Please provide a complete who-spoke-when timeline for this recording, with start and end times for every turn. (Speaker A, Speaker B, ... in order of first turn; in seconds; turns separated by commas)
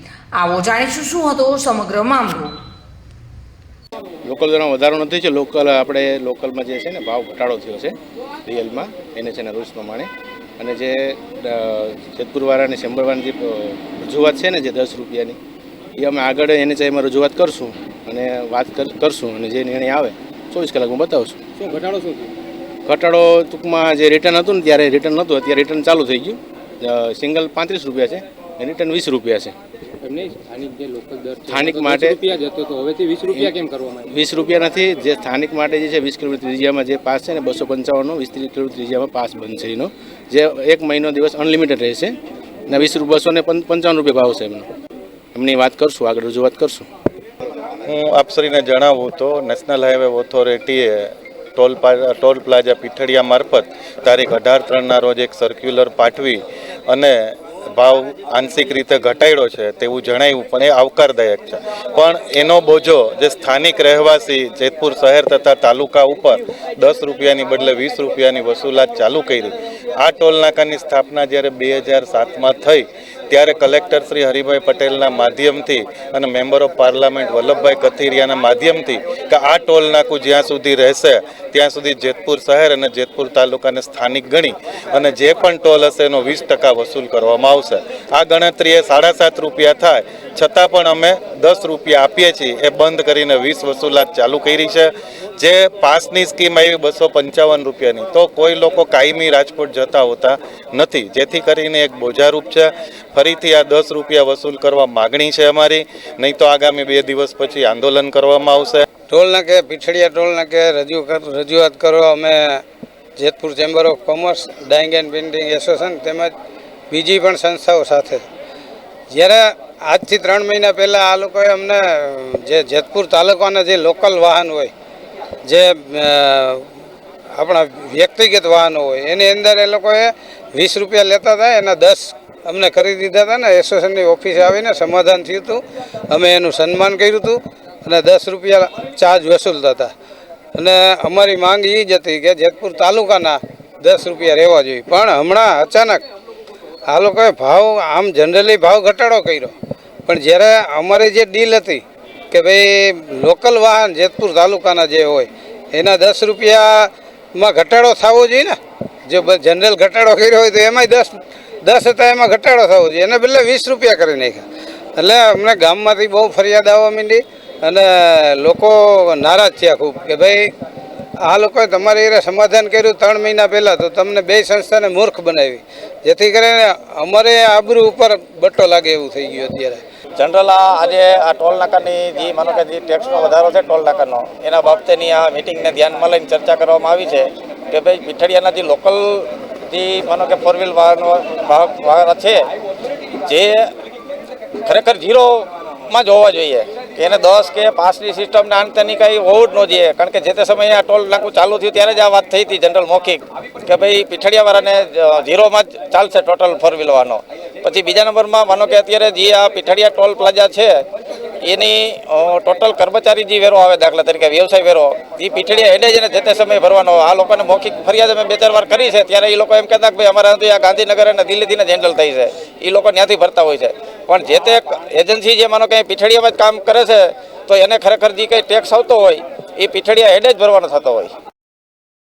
Speaker A: 0.4-2.6, Speaker B: 4.2-15.4, Speaker B: 16.0-21.4, Speaker C: 21.6-22.3, Speaker B: 22.9-29.6, Speaker C: 30.0-34.1, Speaker B: 31.5-32.2, Speaker B: 33.3-42.1, Speaker B: 42.7-44.7, Speaker B: 45.3-46.9, Speaker D: 47.9-108.8, Speaker E: 109.1-112.6, Speaker E: 113.2-116.3, Speaker E: 116.9-118.2, Speaker E: 119.1-124.7, Speaker E: 125.5-126.7, Speaker E: 127.3-139.9, Speaker E: 140.6-146.0, Speaker E: 146.9-149.5, Speaker E: 150.1-164.4, Speaker E: 165.0-170.5, Speaker E: 171.2-179.8, Speaker F: 180.2-192.4, Speaker F: 193.3-193.7, Speaker F: 194.7-210.8, Speaker F: 211.4-231.1